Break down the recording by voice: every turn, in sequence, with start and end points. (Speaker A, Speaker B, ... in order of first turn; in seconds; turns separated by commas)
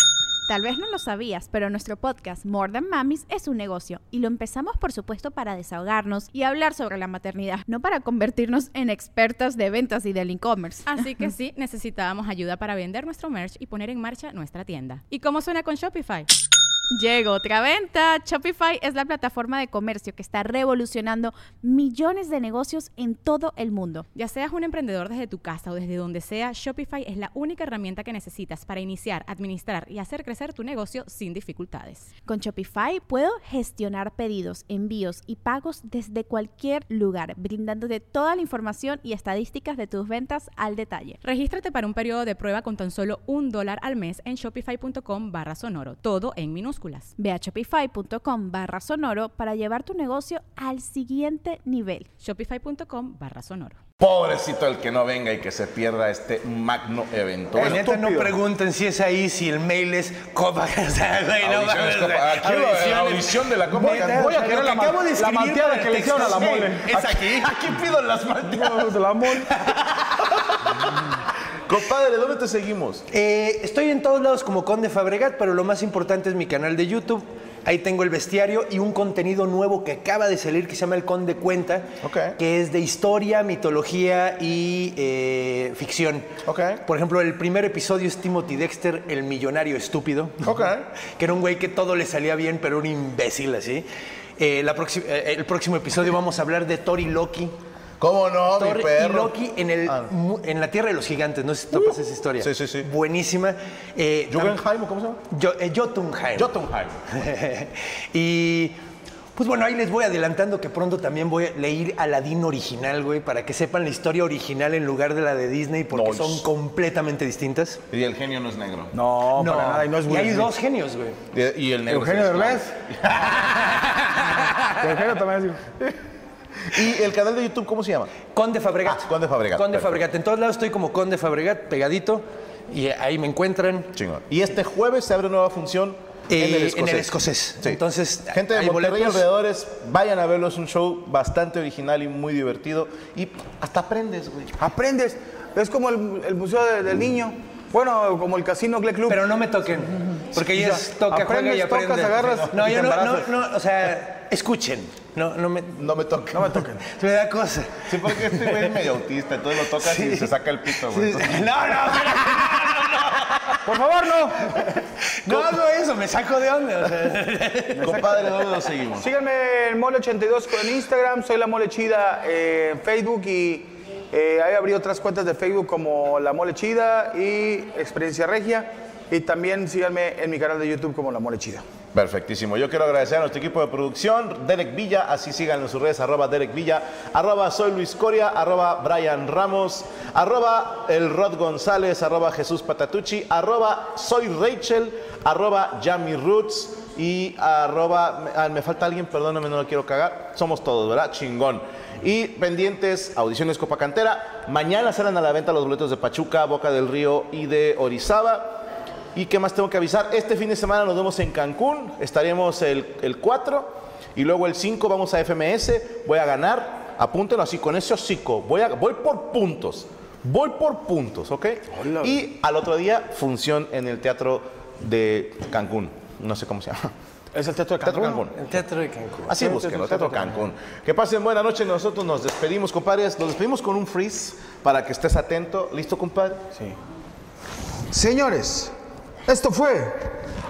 Speaker A: 0.5-10.9, Speaker B: 10.8-16.3, Speaker A: 16.9-24.1, Speaker B: 24.1-32.1, Speaker A: 32.3-41.2, Speaker B: 41.2-47.1, Speaker A: 47.2-52.1, Speaker B: 52.2-53.8, Speaker C: 54.0-57.9, Speaker D: 57.5-67.6, Speaker E: 57.6-58.3, Speaker C: 61.4-64.7, Speaker E: 63.9-66.8, Speaker C: 66.2-69.4, Speaker E: 68.5-69.5, Speaker D: 69.4-70.0, Speaker C: 71.7-73.0, Speaker D: 73.1-86.3, Speaker C: 82.0-82.4, Speaker C: 86.5-86.8, Speaker D: 86.8-93.9, Speaker C: 90.4-90.8, Speaker D: 94.4-97.6, Speaker C: 98.0-99.3, Speaker D: 98.5-104.6, Speaker C: 99.8-100.1, Speaker C: 101.7-102.9, Speaker C: 104.3-105.2, Speaker D: 105.3-106.5, Speaker C: 106.3-107.0, Speaker D: 107.1-108.8, Speaker D: 109.3-117.8, Speaker C: 115.9-116.5, Speaker C: 117.9-118.9, Speaker E: 118.9-120.5, Speaker D: 119.3-121.2, Speaker C: 121.3-123.6, Speaker E: 121.9-122.6, Speaker D: 123.3-124.9, Speaker E: 124.8-125.6, Speaker C: 126.7-128.1, Speaker D: 128.3-133.9, Speaker C: 128.8-130.0, Speaker C: 133.9-144.5, Speaker D: 136.3-139.2, Speaker E: 144.6-149.2, Speaker D: 149.1-155.8, Speaker E: 150.4-153.2, Speaker C: 155.8-156.6, Speaker E: 156.3-156.8, Speaker D: 156.9-158.8, Speaker C: 157.8-161.5, Speaker D: 159.6-163.7, Speaker E: 163.7-164.4, Speaker D: 164.5-168.0, Speaker E: 167.8-168.2, Speaker C: 167.8-169.1, Speaker E: 168.9-181.6, Speaker C: 181.9-208.6, Speaker C: 209.1-226.9, Speaker E: 221.8-222.1, Speaker E: 227.3-228.2, Speaker C: 227.8-228.4, Speaker D: 228.3-229.3, Speaker C: 229.3-236.4, Speaker E: 229.4-230.2, Speaker E: 237.9-238.7, Speaker E: 239.2-240.2